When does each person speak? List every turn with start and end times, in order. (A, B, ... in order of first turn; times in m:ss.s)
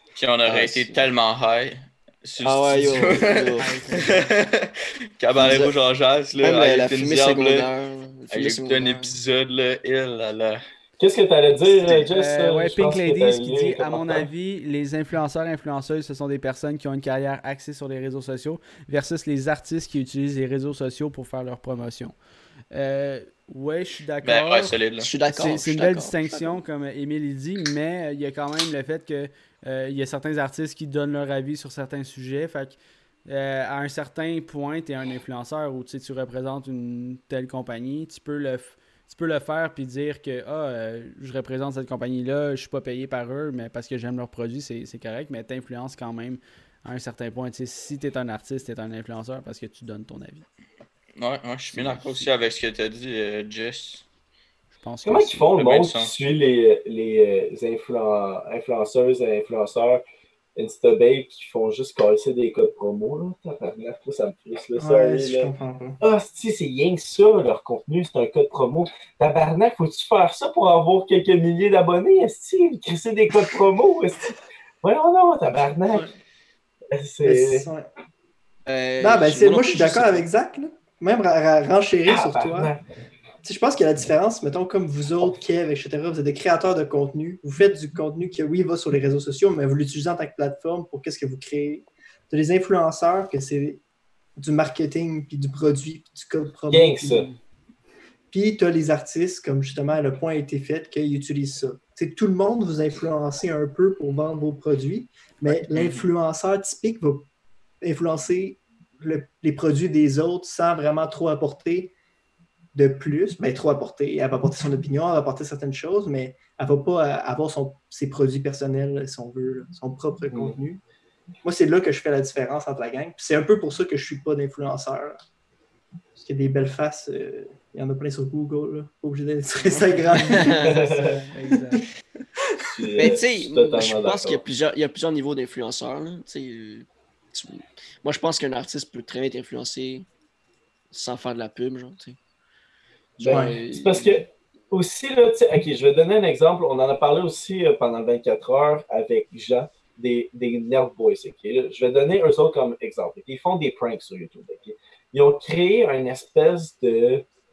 0:00.2-0:07.7 A
0:00.4-0:01.0 B
0:02.4-0:03.7 B
0:03.6-0:04.3 C
0:05.4-0:05.7 B
0:06.4-0:09.1 B
0:08.3-0:10.6 A
0:11.0-0:14.3 D
0:11.8-0:22.2 C
0:22.7-0:24.8 C
0:24.2-0:25.1 A
0:25.0-0:26.6 B
0:25.3-0:50.4 C
0:51.2-0:54.0 A
0:51.7-0:52.0 B
0:54.8-0:55.5 C
0:55.0-1:00.0 D
0:55.5-0:56.2 A
1:00.6-1:16.1 D
1:04.8-1:06.0 E
1:16.9-1:17.7 D
1:17.2-1:17.9 E
1:18.6-1:20.2 B
1:19.0-1:22.7 E
1:22.0-1:22.8 D
1:23.4-1:33.8 E
1:34.4-1:37.3 E
1:36.7-1:37.3 D
1:38.3-1:47.3 E
1:47.8-1:51.9 E
1:52.7-2:00.8 E
2:00.3-2:00.6 D
2:01.4-2:05.2 E
2:06.2-2:11.8 E
2:10.2-2:10.8 B
2:10.2-2:11.8 C
2:10.6-2:11.2 D
2:12.6-2:13.1 E
2:12.7-2:14.4 D
2:13.0-2:20.1 B
2:20.9-2:22.2 B
2:23.2-2:37.2 D
2:23.2-2:24.2 B
2:23.3-2:23.6 E